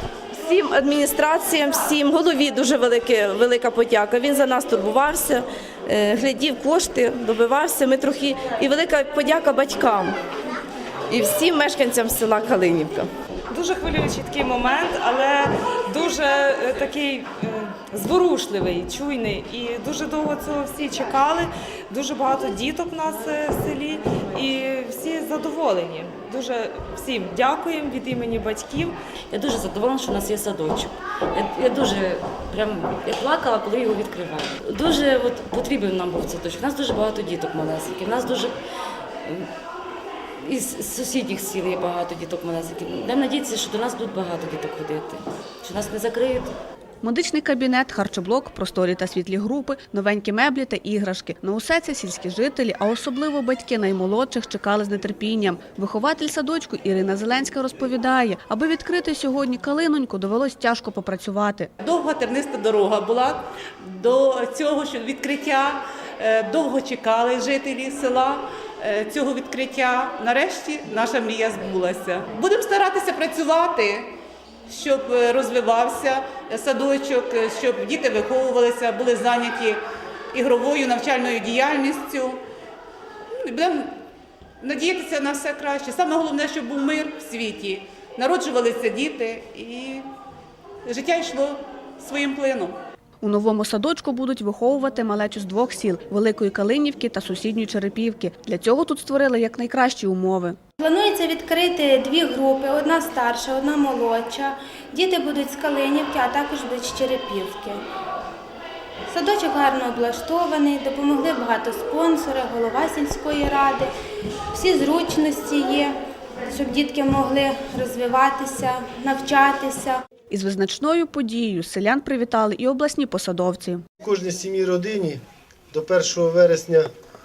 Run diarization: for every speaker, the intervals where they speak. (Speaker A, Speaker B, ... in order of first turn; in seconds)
Speaker A: 0.3-10.2, 11.1-13.1
Speaker B: 13.5-28.9
Speaker C: 29.3-38.5, 40.4-46.5
Speaker D: 47.0-61.7, 93.2-100.6, 120.3-123.8
Speaker E: 61.8-74.0, 74.7-79.8, 80.3-82.4, 83.4-83.9, 84.6-90.1, 90.8-92.8
Speaker F: 100.8-107.8, 109.1-113.9, 114.5-115.9, 116.4-120.0
Speaker G: 124.0-126.9